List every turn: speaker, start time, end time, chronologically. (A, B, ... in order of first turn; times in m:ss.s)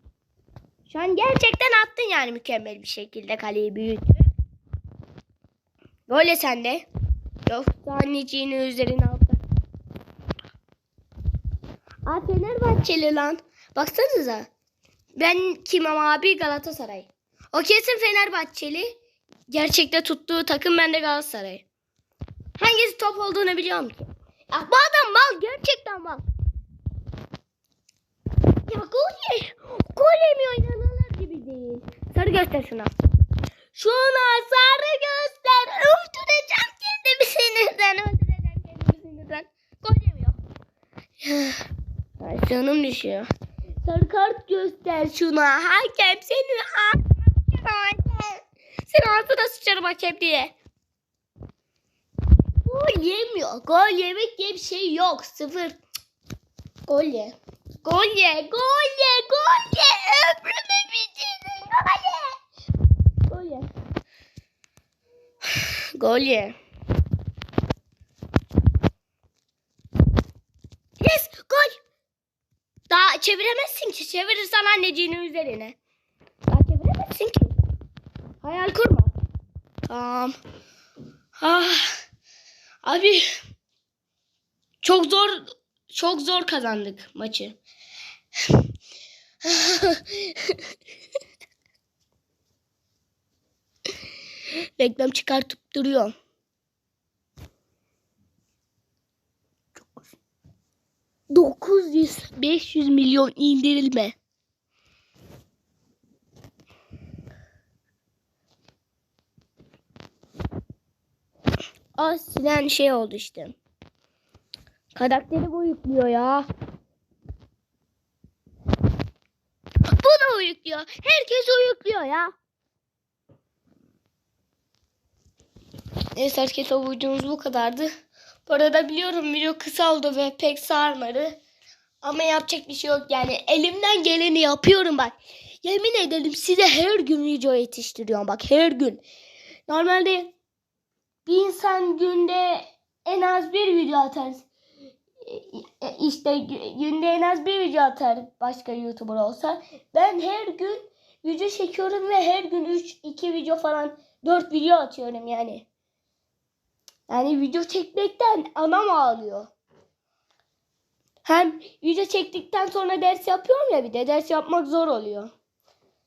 0:00.9-0:04.3 A
0:06.1-0:06.9 A
0:07.5-0:09.4 A
0:12.0-0:14.5 A
0:15.2-0:19.0 A
0:19.5-0:21.6 A
0:22.6-0:26.2 A
0:28.7-0:32.9 A
0:33.7-0:40.4 A
0:41.2-0:41.6 A
0:42.2-0:43.3 A
0:43.8-0:50.5 A
0:52.6-0:55.8 A
0:56.9-1:02.4 A
1:03.3-1:03.7 A
1:05.6-1:06.6 A
1:11.0-1:11.8 A
1:12.9-1:15.8 A
1:16.5-1:17.5 A
1:18.4-1:19.1 A
1:19.9-1:20.3 A
1:21.4-1:22.0 A
1:22.8-1:23.3 A
1:24.8-1:27.6 A
1:29.4-1:30.6 A
1:34.8-1:36.1 A
1:41.3-1:44.1 A
1:52.0-1:53.6 A
1:54.9-1:56.5 A
2:00.0-2:02.3 A
2:06.2-2:07.9 A
2:08.5-2:11.4 A
2:12.0-2:19.0 A
2:19.7-2:20.3 A
2:21.2-2:24.5 A
2:25.2-2:35.6 A
2:37.1-2:39.5 A
2:41.2-2:45.3 A